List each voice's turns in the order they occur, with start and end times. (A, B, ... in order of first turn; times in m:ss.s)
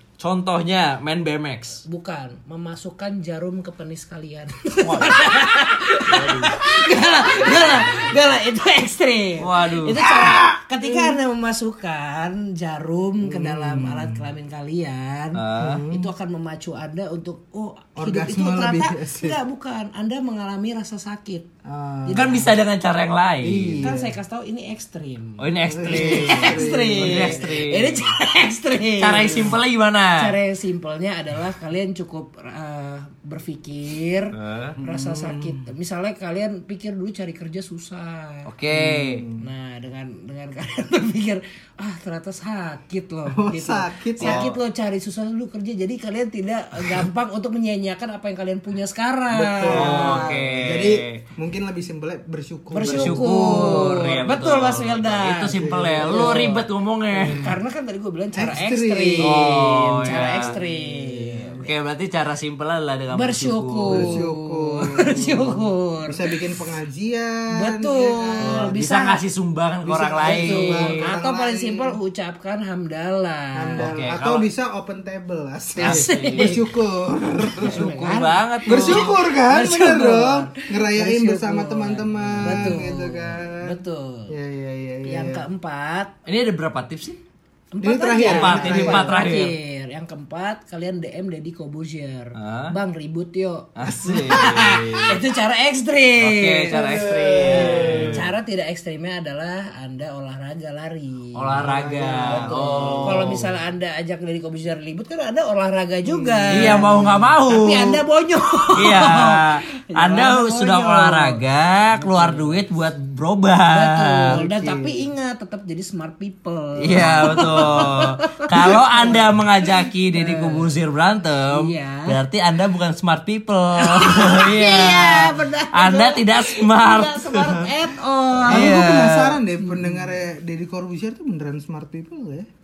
0:00.2-0:01.8 A
0:01.8-0:21.5 B
0:04.8-0:05.2 A
0:06.1-0:06.5 A
0:09.4-0:10.4 A
0:10.8-0:11.2 C
0:13.2-0:14.3 C
0:15.3-0:15.8 A
0:15.6-0:16.1 C
0:18.0-0:19.4 C
0:21.6-0:22.5 C
0:22.0-0:22.5 B
0:22.1-0:23.8 A
0:23.4-0:24.1 C
0:23.8-0:29.5 B
0:25.4-0:28.1 A
0:25.7-0:27.5 C
0:29.0-0:30.3 A
0:30.2-0:38.5 B
0:34.3-0:34.8 A
0:34.8-0:35.7 C
0:38.5-0:39.2 A
0:38.7-0:39.4 C
0:39.4-0:50.4 B
0:43.3-0:44.5 C
0:44.2-0:44.5 A
0:49.3-0:54.0 C
0:49.6-0:51.2 A
0:52.7-0:56.6 B
0:52.8-0:57.4 A
0:55.5-0:56.6 C
0:57.2-0:57.6 C
0:57.2-1:01.7 B
0:58.3-1:01.6 C
0:59.2-1:00.6 A
1:01.6-1:04.2 A
1:03.1-1:06.4 B
1:03.9-1:08.8 C
1:07.5-1:09.2 B
1:08.4-1:11.1 A
1:09.8-1:12.0 C
1:10.2-1:13.9 B
1:13.6-1:23.8 C
1:13.8-1:14.5 A
1:15.8-1:16.6 A
1:15.8-1:16.6 B
1:17.6-1:19.1 A
1:17.6-1:24.3 B
1:22.2-1:22.7 A
1:24.3-1:25.4 C
1:25.0-1:26.1 B
1:26.2-1:27.2 A
1:27.7-1:51.4 B
1:27.8-1:29.2 C
1:28.2-1:29.5 A
1:32.3-1:32.7 A
1:33.8-1:35.2 A
1:34.3-1:34.7 C
1:36.2-1:38.3 A
1:36.7-1:38.2 C
1:41.3-1:43.5 A
1:41.5-1:43.4 C
1:46.0-1:47.2 C
1:46.5-1:48.0 A
1:48.7-1:54.4 A
1:51.9-1:52.6 B
1:53.7-2:00.7 B
1:54.3-1:55.0 C
1:56.8-2:07.7 A
2:01.5-2:02.2 B
2:03.8-2:08.8 B
2:08.4-2:09.4 A
2:08.4-2:12.5 C
2:09.6-2:10.0 B